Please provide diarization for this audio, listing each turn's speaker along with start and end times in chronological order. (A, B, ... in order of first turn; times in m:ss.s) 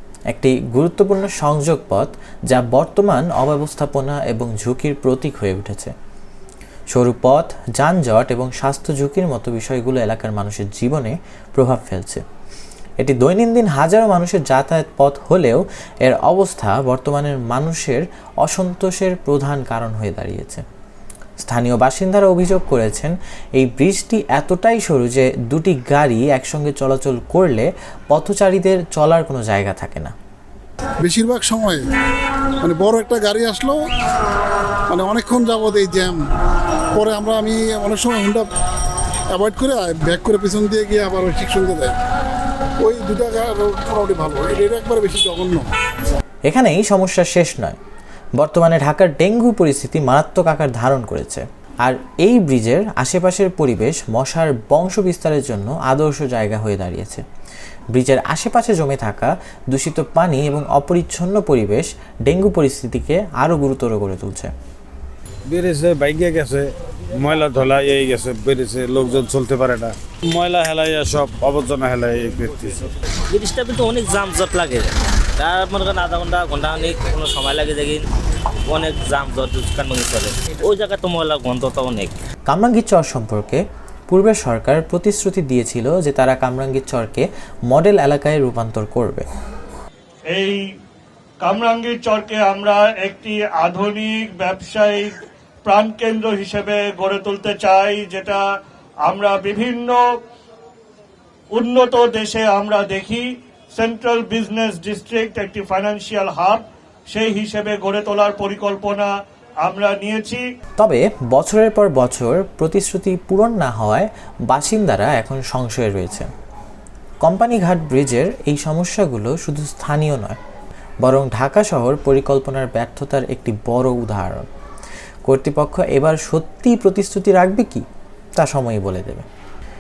0:00.3-0:05.9 A
0:06.9-0:12.2 A
0:13.0-0:20.6 A
0:21.4-0:30.1 A
0:31.0-0:31.8 B
0:32.6-0:33.8 B
0:34.9-0:36.2 B
0:37.0-0:38.5 B
0:39.3-0:42.0 B
0:42.8-0:45.7 B
0:46.5-0:47.8 A
0:48.4-0:57.2 A
0:57.9-1:04.5 A
1:05.5-1:12.9 C
1:13.3-1:18.0 D
1:18.7-1:22.2 D
1:22.5-1:29.3 A
1:30.3-1:30.6 E
1:31.4-1:35.1 E
1:35.6-1:38.4 E
1:39.0-1:40.0 E
1:41.5-1:49.1 E
1:49.6-1:50.4 E
1:50.8-1:56.3 A
1:57.2-2:00.4 A
2:01.0-2:04.5 A
2:05.3-2:07.8 A
2:08.4-2:09.3 A